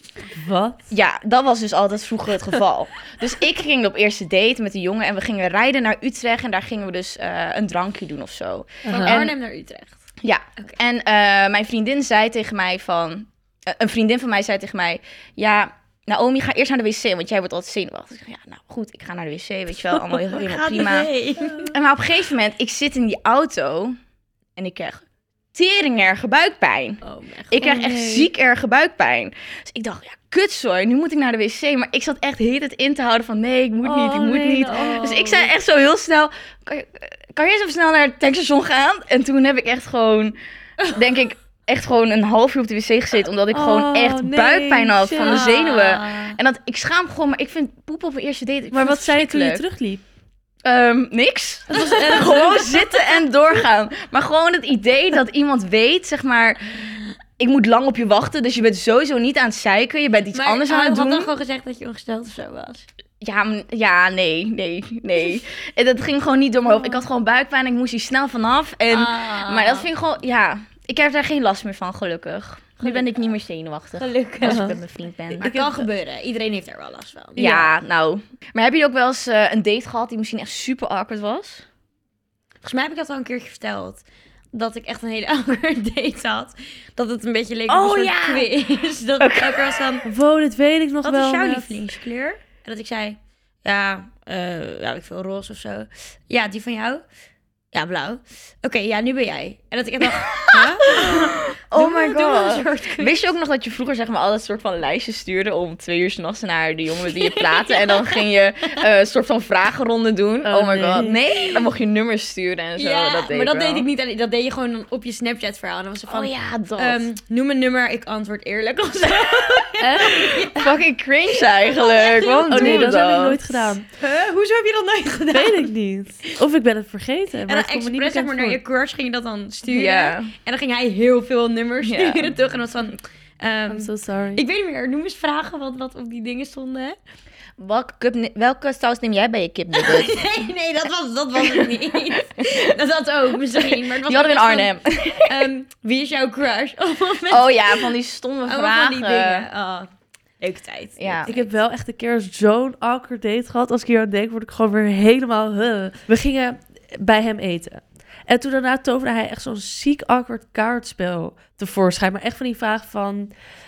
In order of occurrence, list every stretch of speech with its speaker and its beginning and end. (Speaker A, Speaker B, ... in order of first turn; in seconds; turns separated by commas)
Speaker A: 0.3-0.8, Speaker B: 0.9-9.3, Speaker A: 8.8-9.3, Speaker C: 8.9-10.0, Speaker B: 10.2-23.9, Speaker C: 20.1-21.7, Speaker B: 24.6-40.4, Speaker C: 27.0-28.2, Speaker A: 27.6-28.0, Speaker A: 33.8-35.0, Speaker C: 34.5-35.5, Speaker B: 40.9-49.6, Speaker A: 43.5-45.4, Speaker C: 45.2-46.4, Speaker A: 48.7-50.0, Speaker B: 50.6-56.8, Speaker A: 51.7-53.0, Speaker C: 51.8-52.1, Speaker B: 57.4-61.3, Speaker C: 60.3-62.8, Speaker B: 63.2-75.7, Speaker C: 68.9-69.9, Speaker C: 74.0-77.5, Speaker A: 74.4-74.7, Speaker A: 75.5-75.8, Speaker A: 77.3-77.7, Speaker B: 77.4-81.6, Speaker C: 82.6-90.0, Speaker B: 87.7-88.5, Speaker B: 89.2-89.8, Speaker A: 90.0-91.7, Speaker C: 91.0-97.0, Speaker C: 97.7-103.3, Speaker B: 100.0-113.9, Speaker C: 107.1-108.2, Speaker A: 110.4-111.2, Speaker C: 111.1-111.7, Speaker C: 112.8-120.8, Speaker B: 116.1-117.0, Speaker A: 119.8-120.2, Speaker B: 120.0-123.7, Speaker C: 121.3-123.1, Speaker A: 122.5-123.9, Speaker C: 123.9-125.7, Speaker A: 125.3-128.6, Speaker C: 127.5-137.0, Speaker B: 129.6-130.3, Speaker B: 131.8-132.4, Speaker A: 133.7-134.4, Speaker B: 137.6-140.2, Speaker C: 139.7-147.9, Speaker B: 141.4-141.8, Speaker B: 143.5-145.4, Speaker B: 147.3-149.5, Speaker C: 148.5-149.9, Speaker C: 150.4-151.5, Speaker B: 151.0-151.3, Speaker A: 151.3-163.3